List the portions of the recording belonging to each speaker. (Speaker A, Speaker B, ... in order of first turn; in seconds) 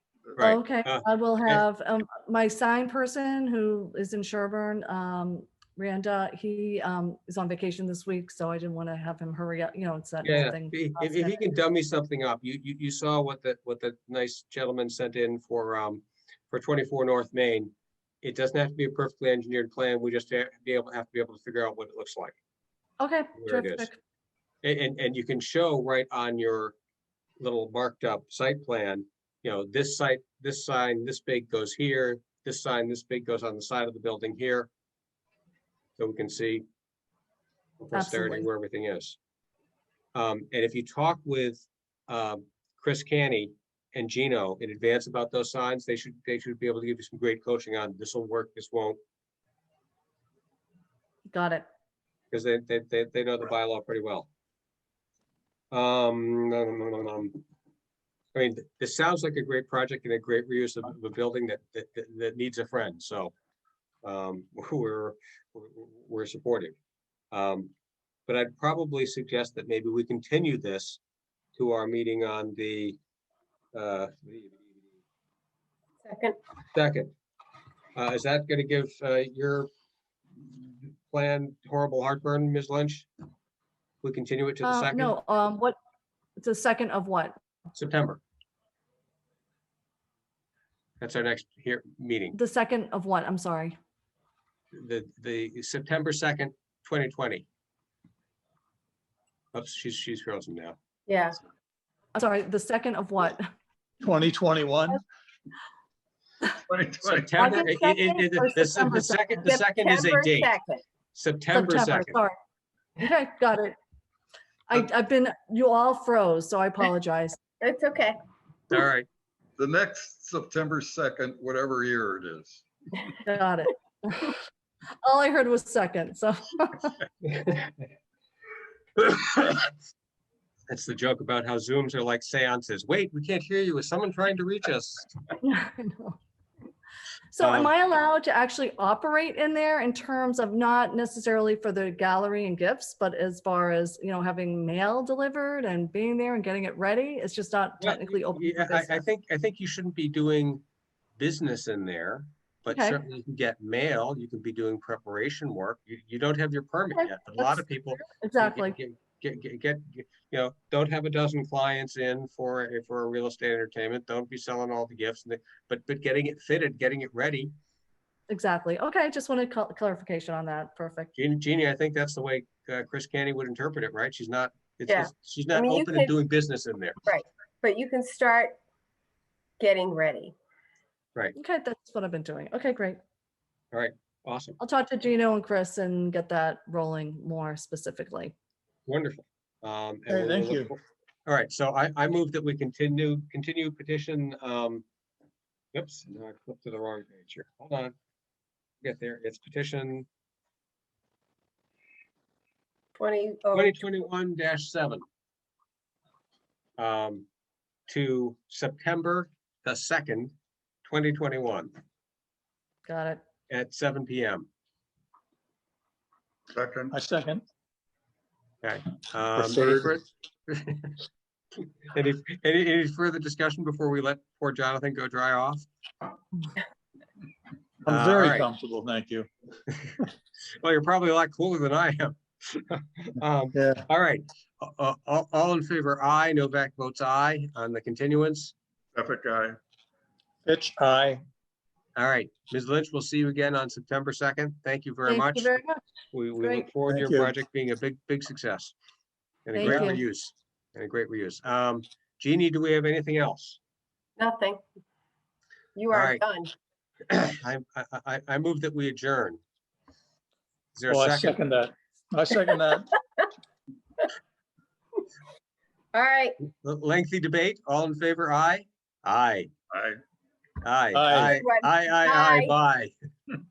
Speaker A: 0.3-1.6, 10.2-17.7, 18.2-22.3, 23.4-23.9, 24.6-26.7, 27.4-34.7, 36.0-36.6, 37.8-39.2, 40.1-49.0, 52.3-54.3, 55.7-57.4, 58.3-63.3, 64.0-66.7, 67.3-67.7, 68.3-71.0, 71.5-73.0, 73.7-74.5, 76.7-77.1, 77.9-79.7, 81.1-83.1, 84.0-85.1, 87.8-88.2, 91.0-92.4, 94.7-97.5, 99.5-100.8, 107.0-110.5, 111.1-112.2, 118.7-119.1, 127.2-127.7, 129.0-129.6, 130.7-135.2, 137.4-137.7, 147.8-150.6, 151.2-167.5, 171.2-177.0, 183.7-184.6, 188.9-194.8, 195.7-197.9, 198.8-200.1, 203.5-205.0, 206.8-207.3, 207.9-210.3, 210.8-211.7, 213.5-214.5, 218.6-221.0, 221.9-225.7, 227.9-228.5, 229.7-230.0, 230.6-238.5, 241.9-245.6, 246.1-248.7, 249.4-253.6, 255.9-256.2, 257.1-259.4, 260.7-261.4, 266.4-269.5, 270.6-272.9
Speaker B: 0.4-11.4, 23.0-24.0, 37.9-38.5, 51.3-51.6, 84.6-85.8, 86.4-87.3, 92.3-93.8, 102.1-103.4, 107.4-109.5, 111.5-112.3, 113.0-113.8, 114.7-117.4, 123.2-124.4, 125.0-126.9, 135.4-136.2, 137.3-149.0, 152.7-153.0, 157.0-158.7, 168.3-171.1, 181.3-183.0, 184.6-188.3, 212.8-213.2, 245.1-245.8, 246.4-246.7, 249.5-250.0
Speaker C: 76.0-76.4, 101.1-101.3, 107.4-107.7, 109.5-110.8, 117.6-118.2, 174.9-176.1, 177.0-178.5, 179.6-180.3, 203.0-203.8, 254.2-254.6, 255.8-256.5, 265.9-266.4, 271.3-272.5
Speaker D: 104.0-105.0, 190.1-190.7, 216.9-217.4, 219.3-219.9, 227.8-229.3, 233.5-233.8, 240.4-241.2, 246.9-247.3, 260.9-262.9, 270.9-271.4
Speaker E: 106.7-107.5, 119.6-122.6, 216.5-216.9, 238.9-239.6, 269.7-270.0